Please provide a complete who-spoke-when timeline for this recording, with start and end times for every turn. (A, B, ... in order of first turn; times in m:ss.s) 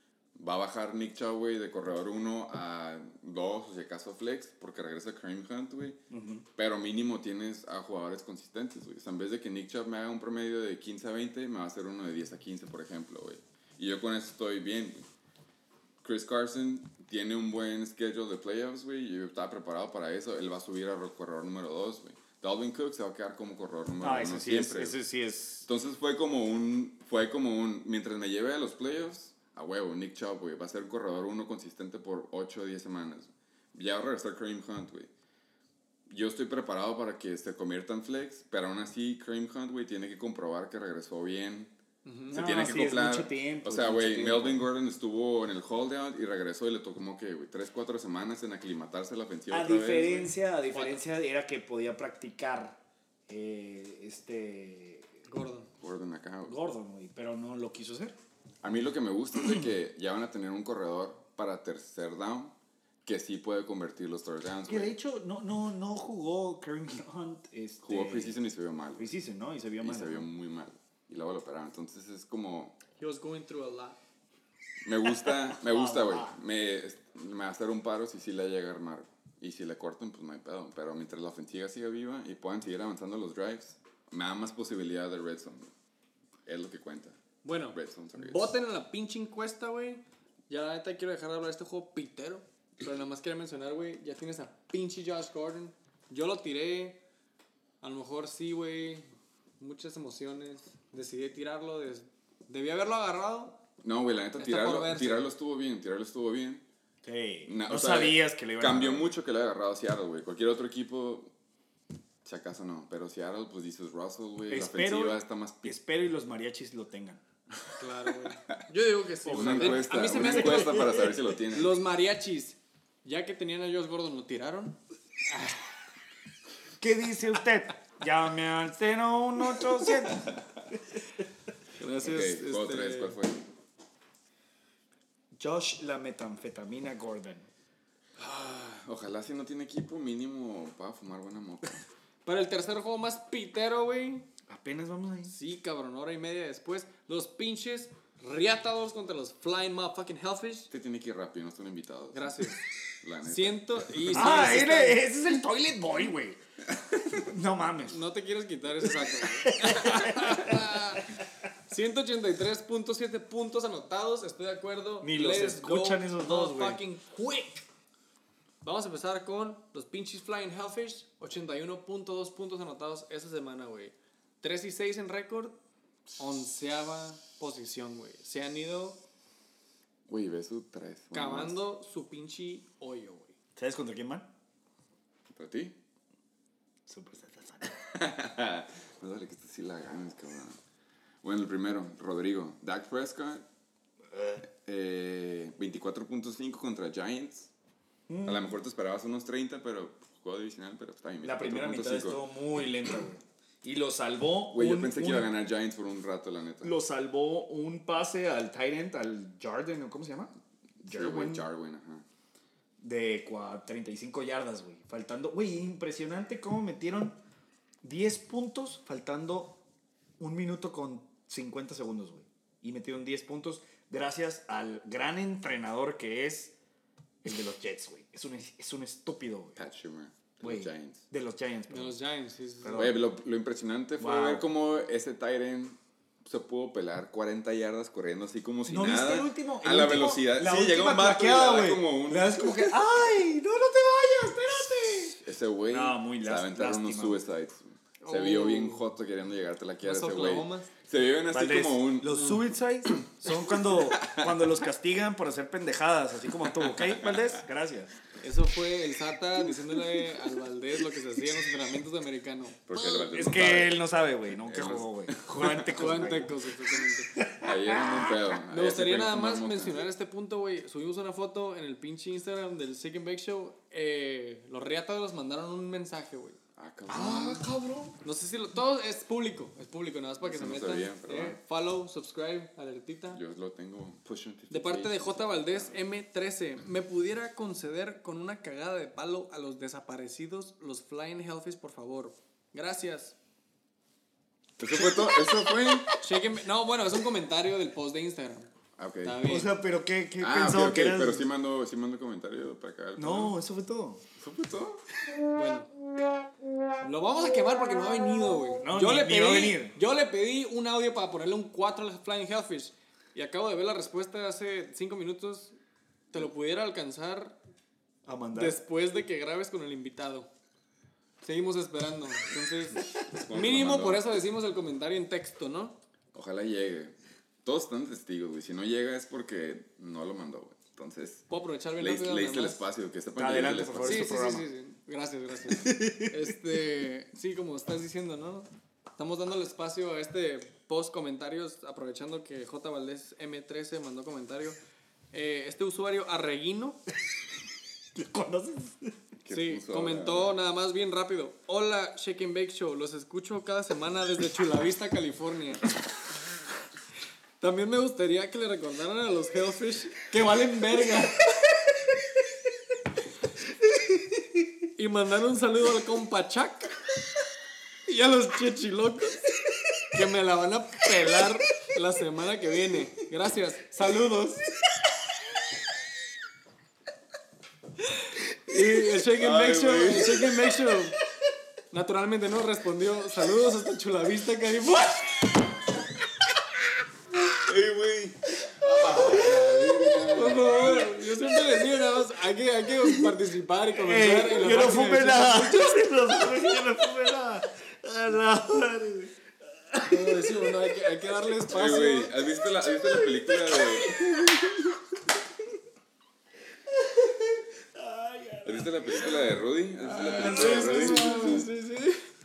0:00.4-0:06.0 A
0:06.1-0:06.4 B
0:06.6-0:15.0 A
0:16.0-0:25.0 A
0:24.0-0:25.7 B
0:25.6-0:35.1 A
0:36.1-0:41.7 A
0:42.0-0:42.4 C
0:42.3-0:50.3 A
0:42.3-0:44.6 B
0:49.5-0:55.1 B
0:50.7-0:51.0 C
0:55.3-0:55.7 C
0:55.8-0:56.6 A
0:56.4-0:58.2 B
0:58.6-1:02.5 A
1:03.0-1:04.9 A
1:04.6-1:08.4 B
1:07.8-1:09.1 A
1:09.0-1:10.3 B
1:09.8-1:12.8 A
1:13.0-1:14.0 C
1:14.8-1:25.7 A
1:15.6-1:16.3 B
1:26.4-1:27.2 A
1:27.4-1:37.0 C
1:27.7-1:28.6 A
1:37.8-1:43.6 C
1:43.8-1:46.6 A
1:44.4-1:45.3 C
1:47.0-1:49.2 B
1:47.4-1:51.3 A
1:52.2-1:55.8 A
1:54.5-1:57.2 B
1:57.8-2:04.8 C
1:59.2-2:01.1 B
1:59.3-2:01.8 A
2:06.8-2:10.3 B
2:10.1-2:10.4 A
2:11.8-2:13.2 C
2:12.0-2:13.4 A
2:15.4-2:17.5 B
2:18.2-2:21.8 A
2:22.2-2:24.3 C
2:24.5-2:25.3 B
2:25.2-2:30.7 C
2:30.7-2:32.5 A
2:32.1-2:32.6 C
2:33.0-2:34.4 A
2:33.2-2:35.0 C
2:34.1-2:36.4 B
2:37.3-2:38.0 B
2:37.9-2:41.1 C
2:38.8-2:40.6 B
2:41.7-2:47.6 C
2:45.0-2:46.8 B
2:48.6-2:55.6 C
2:56.2-2:59.0 C
3:00.1-3:01.6 A
3:01.1-3:03.3 C
3:03.6-3:04.3 B
3:05.3-3:05.8 A
3:06.9-3:07.7 B
3:07.8-3:10.6 A
3:11.2-3:13.4 A
3:14.1-3:14.4 B
3:14.4-3:17.5 A
3:18.1-3:18.5 B
3:18.2-3:22.2 A
3:21.2-3:25.3 B
3:24.5-3:26.7 A
3:26.6-3:31.4 B
3:30.8-3:32.0 A
3:32.8-3:37.2 B
3:37.8-3:39.6 B
3:40.2-3:46.5 B
3:47.2-3:49.6 B
3:49.6-3:51.0 A
3:50.4-3:52.0 B
3:51.7-3:52.9 C
3:52.6-3:53.0 B
3:52.7-4:02.7 A
3:54.0-3:54.5 B
3:58.6-4:07.2 B
4:05.2-4:12.3 A
4:08.0-4:08.8 C
4:09.8-4:10.7 C
4:11.3-4:18.0 B
4:13.7-4:14.3 A
4:16.8-4:17.2 A
4:18.2-4:22.6 C
4:22.7-4:26.2 A
4:22.7-4:26.3 B
4:25.7-4:27.1 C
4:27.1-4:28.2 B
4:27.4-4:29.8 A
4:28.5-4:36.4 C
4:36.6-4:37.6 A
4:36.9-4:37.9 B
4:38.0-4:43.2 C
4:40.2-4:41.4 A
4:43.1-4:45.8 A
4:44.5-4:53.2 C
4:54.6-4:55.9 A
4:54.7-4:56.0 B
4:56.0-4:58.5 C
4:58.8-4:59.2 A
4:59.0-4:59.5 C
4:59.2-5:01.3 B
5:00.2-5:03.4 A
5:03.0-5:04.0 B
5:04.2-5:04.8 A
5:05.3-5:05.7 C
5:06.8-5:15.6 C
5:08.6-5:09.8 B
5:16.1-5:17.4 C
5:18.0-5:18.6 B
5:18.3-5:20.3 C
5:21.2-5:25.8 C
5:22.9-5:24.1 A
5:26.1-5:34.2 A
5:31.3-5:32.6 C
5:33.2-5:34.4 B
5:33.8-5:44.6 C
5:35.5-5:36.3 B
5:45.1-5:46.8 C
5:47.9-5:49.0 B
5:49.2-5:50.3 A
5:49.3-5:55.7 C
5:57.4-6:01.3 C
6:04.7-6:06.7 C
6:07.9-6:09.3 C
6:09.8-6:14.4 C
6:17.8-6:21.0 C
6:19.2-6:20.4 A
6:21.7-6:25.2 C
6:27.4-6:30.6 A
6:28.9-6:35.8 C
6:29.0-6:29.2 B
6:33.7-6:40.6 B
6:39.8-6:42.1 C
6:41.5-6:44.8 A
6:42.9-6:44.5 B
6:46.7-6:51.5 B
6:48.4-6:51.5 A
6:49.9-6:52.0 C